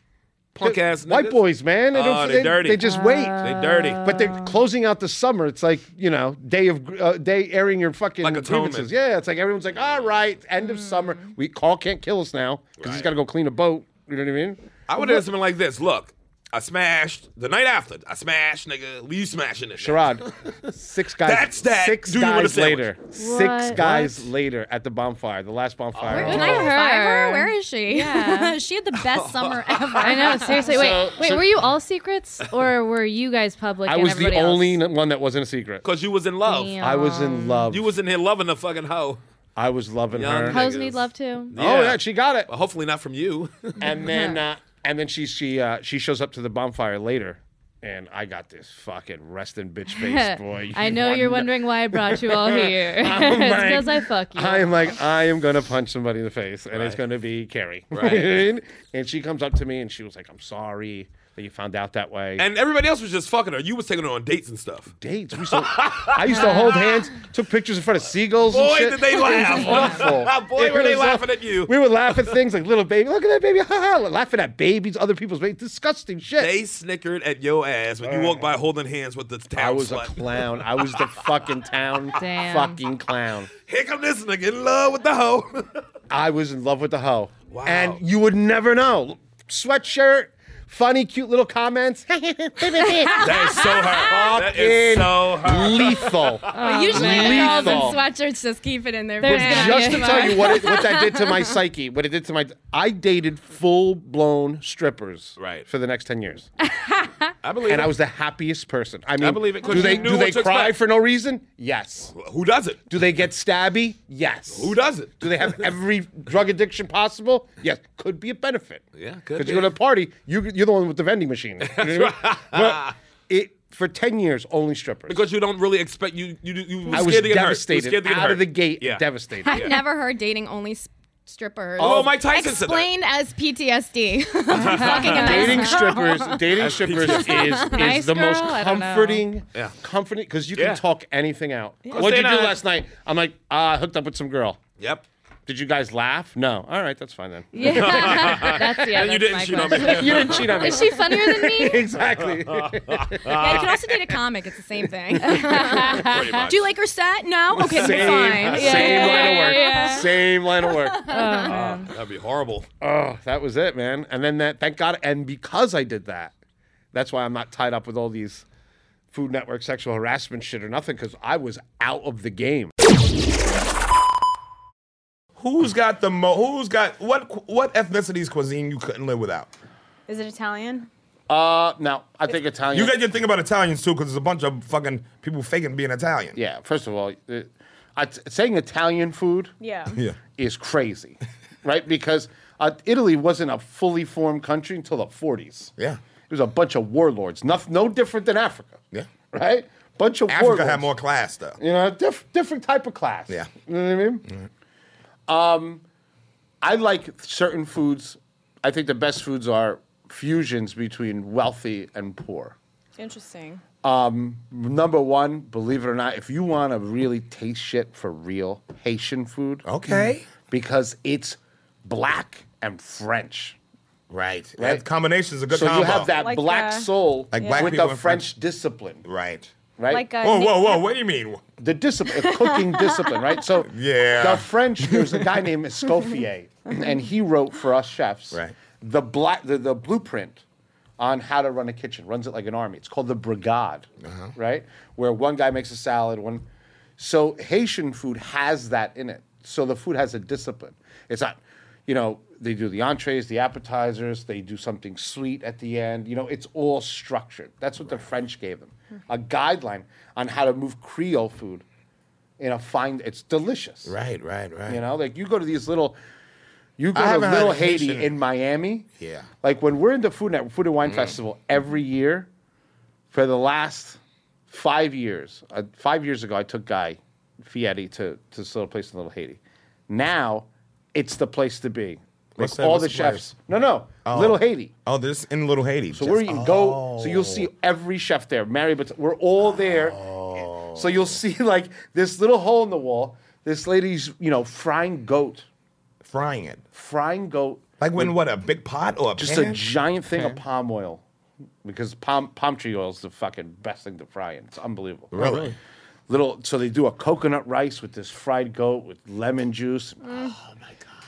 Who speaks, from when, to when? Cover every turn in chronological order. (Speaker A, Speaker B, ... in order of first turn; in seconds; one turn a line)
Speaker A: 0.6-14.6
Speaker B: 0.6-1.4
Speaker B: 1.9-2.9
Speaker C: 2.8-4.6
Speaker B: 3.4-4.0
Speaker B: 8.2-8.9
Speaker D: 10.6-11.3
Speaker B: 12.8-13.1
Speaker B: 14.9-20.6
Speaker A: 19.8-26.7
Speaker B: 21.2-23.0
Speaker C: 23.2-24.2
Speaker B: 23.8-24.1
Speaker B: 26.0-26.6
Speaker D: 26.1-31.0
Speaker C: 26.1-28.6
Speaker B: 28.9-30.6
Speaker C: 30.0-34.8
Speaker A: 30.6-31.5
Speaker A: 33.9-35.9
Speaker B: 35.8-36.8
Speaker C: 36.4-37.7
Speaker A: 36.8-37.9
Speaker B: 37.7-39.2
Speaker A: 39.5-40.6
Speaker B: 40.1-43.8
Speaker C: 40.5-41.5
Speaker A: 41.5-42.5
Speaker A: 43.8-62.4
Speaker C: 44.0-44.4
Speaker C: 49.9-55.0
Speaker B: 56.7-57.0
Speaker B: 57.9-58.5
Speaker B: 62.4-66.5
Speaker A: 65.0-76.5
Speaker C: 66.3-67.0
Speaker B: 68.5-72.3
Speaker C: 69.4-70.0
Speaker B: 76.4-81.0
Speaker A: 78.0-78.5
Speaker A: 79.5-83.5
Speaker C: 82.2-82.8
Speaker B: 83.7-85.8
Speaker A: 86.1-98.0
Speaker B: 87.5-88.0
Speaker C: 93.2-93.5
Speaker B: 93.2-96.6
Speaker C: 96.5-98.0
Speaker D: 96.6-101.3
Speaker C: 99.2-100.8
Speaker A: 99.2-106.5
Speaker B: 105.4-105.7
Speaker C: 106.8-107.1
Speaker B: 107.4-107.9
Speaker A: 107.6-112.1
Speaker B: 109.2-110.8
Speaker B: 112.1-112.8
Speaker A: 112.9-118.8
Speaker B: 114.5-115.7
Speaker B: 119.0-119.7
Speaker A: 119.3-125.2
Speaker B: 121.6-122.9
Speaker B: 125.1-129.8
Speaker A: 126.9-129.6
Speaker D: 129.4-137.8
Speaker B: 131.8-132.9
Speaker A: 131.8-132.1
Speaker B: 134.5-135.6
Speaker C: 134.7-135.9
Speaker A: 135.1-144.6
Speaker B: 136.6-137.7
Speaker C: 137.6-139.2
Speaker B: 140.6-140.8
Speaker B: 141.9-142.6
Speaker B: 144.8-145.0
Speaker A: 145.5-148.6
Speaker C: 147.5-151.8
Speaker B: 147.6-150.7
Speaker A: 149.7-153.7
Speaker B: 152.4-153.8
Speaker D: 153.4-160.0
Speaker A: 155.1-155.8
Speaker C: 155.3-156.5
Speaker B: 155.8-156.7
Speaker A: 157.5-161.1
Speaker B: 157.7-158.9
Speaker C: 158.3-160.3
Speaker D: 160.8-161.5
Speaker C: 161.1-161.9
Speaker B: 161.4-162.7
Speaker A: 162.8-166.3
Speaker A: 166.9-168.4
Speaker A: 169.1-172.7
Speaker E: 175.4-179.5
Speaker D: 180.1-180.9
Speaker A: 181.3-183.0
Speaker E: 182.7-186.4
Speaker A: 186.3-189.5
Speaker D: 189.6-190.0
Speaker E: 189.9-190.2
Speaker A: 190.4-195.7
Speaker A: 196.3-200.9
Speaker E: 200.3-201.6
Speaker A: 201.6-204.2
Speaker A: 205.3-205.8
Speaker A: 206.6-212.6
Speaker D: 213.0-213.6
Speaker A: 213.8-223.6
Speaker E: 219.6-220.3
Speaker E: 224.1-226.1
Speaker A: 224.6-224.8
Speaker A: 225.5-229.1
Speaker D: 225.8-227.8
Speaker E: 227.3-228.3
Speaker E: 229.0-229.5
Speaker A: 229.8-230.1
Speaker D: 229.9-230.8
Speaker E: 230.2-231.4
Speaker A: 231.6-240.4
Speaker D: 232.1-233.2
Speaker E: 233.6-235.2
Speaker A: 241.0-246.4
Speaker E: 244.0-244.3
Speaker A: 247.0-261.6
Speaker A: 262.4-263.9
Speaker E: 263.8-264.8
Speaker A: 264.7-266.0
Speaker A: 266.8-268.9
Speaker E: 266.9-268.1
Speaker E: 269.0-269.3
Speaker A: 269.4-272.3
Speaker E: 270.8-271.1
Speaker A: 273.1-284.7
Speaker E: 282.4-283.3
Speaker E: 284.0-287.5
Speaker A: 285.9-295.4
Speaker E: 289.4-291.1
Speaker E: 296.0-296.6
Speaker A: 296.7-298.2
Speaker E: 297.8-299.6
Speaker A: 299.2-301.0
Speaker A: 301.6-305.5
Speaker E: 305.1-305.6
Speaker A: 306.1-310.0
Speaker D: 310.0-310.4